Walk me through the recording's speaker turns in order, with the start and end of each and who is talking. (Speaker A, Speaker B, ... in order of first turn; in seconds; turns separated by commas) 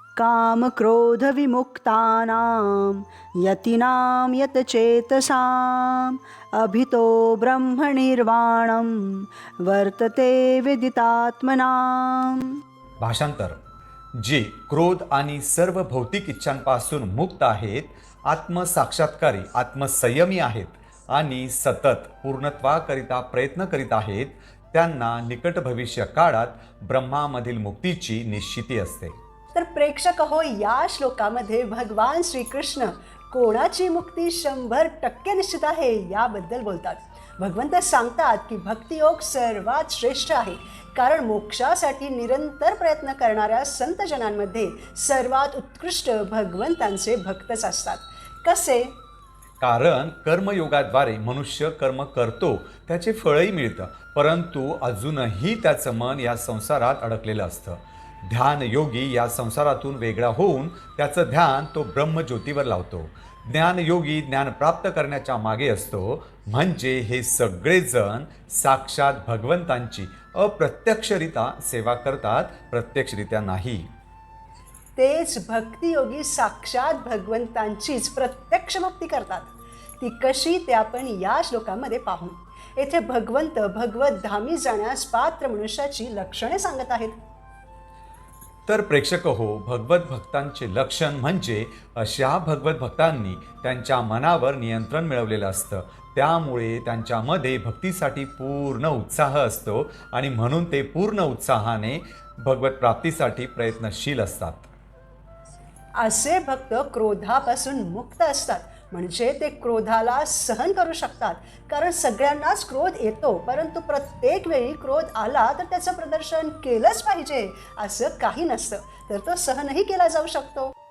Speaker A: 0.2-12.6, Speaker B: 13.0-13.6, Speaker B: 14.2-29.1, Speaker A: 29.5-48.9, Speaker B: 49.6-73.8, Speaker A: 75.0-87.1, Speaker B: 88.7-104.7, Speaker A: 106.0-120.7